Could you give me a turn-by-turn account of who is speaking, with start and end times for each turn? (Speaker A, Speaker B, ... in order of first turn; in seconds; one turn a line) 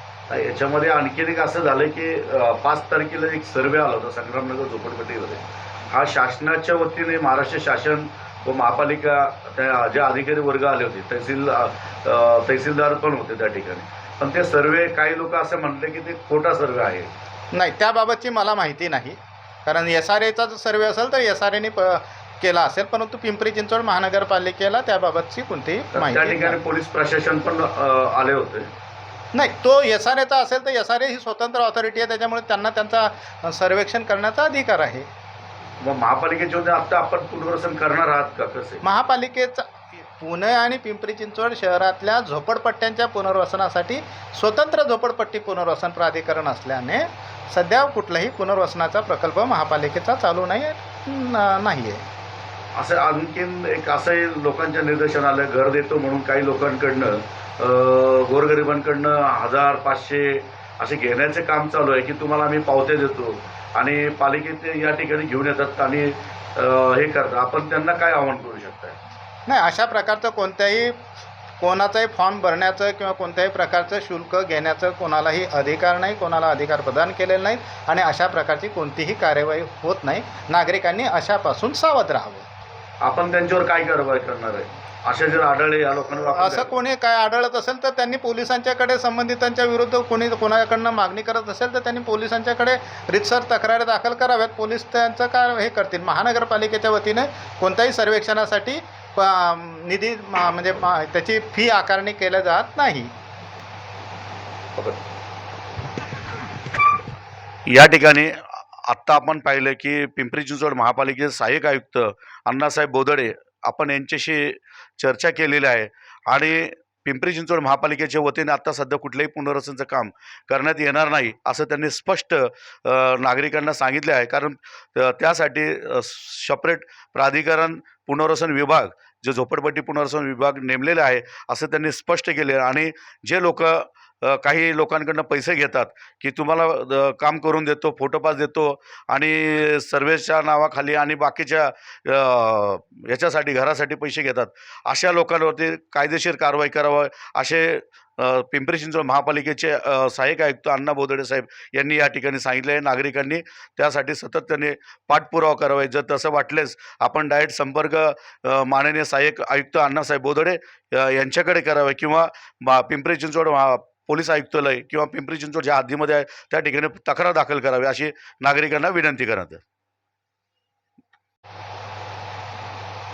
Speaker A: 0.3-17.1
Speaker B: 17.5-26.6
Speaker A: 25.9-28.7
Speaker B: 29.3-35.1
Speaker A: 35.8-38.8
Speaker B: 38.8-52.0
Speaker A: 52.7-69.0
Speaker B: 69.5-71.0
Speaker B: 71.6-82.5
Speaker A: 83.0-86.8
Speaker B: 86.1-103.1
Speaker A: 107.7-108.3
Speaker A: 108.8-169.6